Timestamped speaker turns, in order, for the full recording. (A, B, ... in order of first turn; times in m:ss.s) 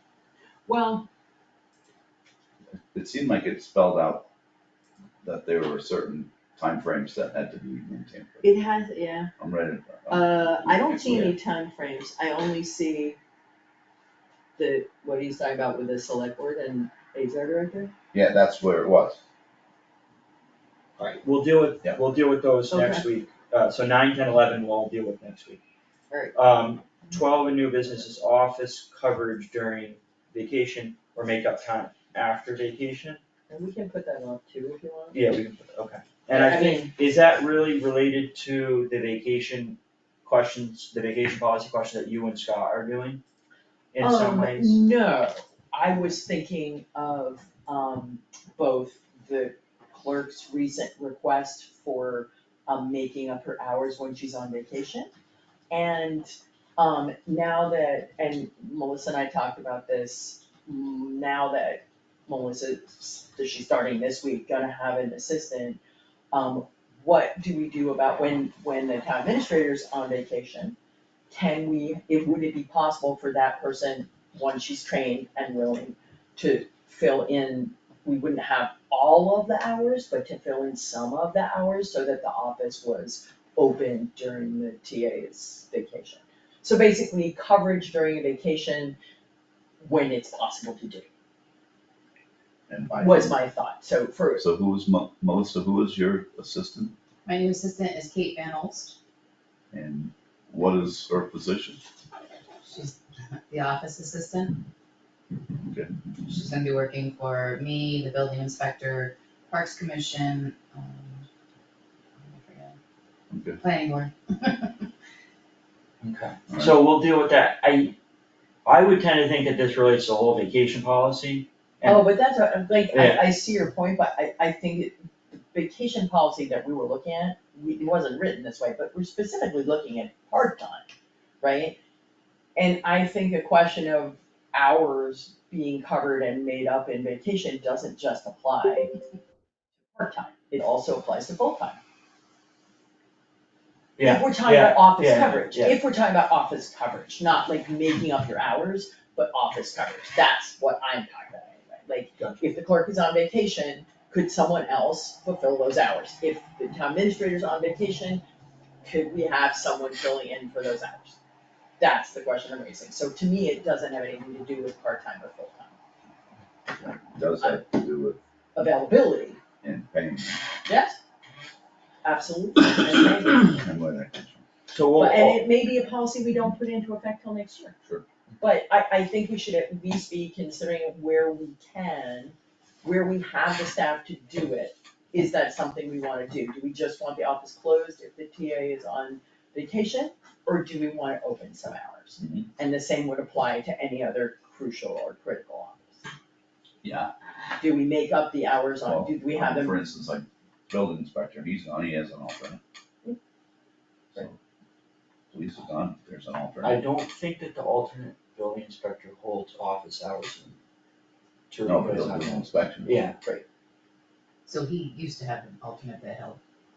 0:00.7-0:01.1 A
0:02.9-0:04.3 B
0:05.2-0:08.5 B
0:08.4-0:09.3 A
0:09.4-0:11.4 B
0:10.1-0:13.2 A
0:14.6-0:17.9 A
0:18.1-0:19.2 B
0:21.0-0:25.6 C
0:22.7-0:23.0 A
0:26.1-0:26.4 A
0:26.3-0:33.2 C
0:33.5-0:35.2 A
0:35.1-0:43.2 C
0:36.3-0:36.9 A
0:43.9-0:44.8 C
0:44.0-0:55.1 A
0:55.7-1:05.8 A
1:06.3-1:10.8 A
1:11.3-1:29.0 A
1:29.8-1:31.1 A
1:32.7-1:33.4 B
1:33.0-1:34.4 A
1:34.4-1:37.0 B
1:37.2-1:39.0 D
1:39.7-1:41.8 B
1:42.6-1:44.6 D
1:45.6-1:45.9 B
1:46.2-1:51.3 D
1:52.2-1:52.8 D
1:53.3-1:53.6 B
1:53.6-1:54.9 D
1:56.0-1:58.0 C
1:56.5-1:56.8 B
1:58.6-2:02.1 C
2:01.8-2:10.8 A
2:02.9-2:03.3 C
2:11.4-2:11.8 A
2:12.6-2:18.9 A
2:19.9-2:21.8 A
2:24.0-2:25.8 C
2:24.0-2:38.2 A
2:38.8-2:41.2 A
2:41.8-2:45.8 A
2:46.8-2:48.2 B
2:47.4-2:47.7 A
2:48.6-2:49.4 A
2:49.6-2:50.4 B
2:50.7-2:51.0 A
2:52.0-2:53.6 A
2:53.5-2:54.4 B
2:54.7-2:55.4 C
2:55.0-2:57.8 A
2:58.4-3:16.1 A
3:12.2-3:12.5 B
3:16.8-3:17.1 B
3:17.6-3:19.8 A
3:18.8-3:22.6 B
3:25.3-3:26.8 B
3:26.6-3:30.6 C
3:31.5-3:33.2 C
3:31.6-3:33.1 B
3:34.5-3:36.4 D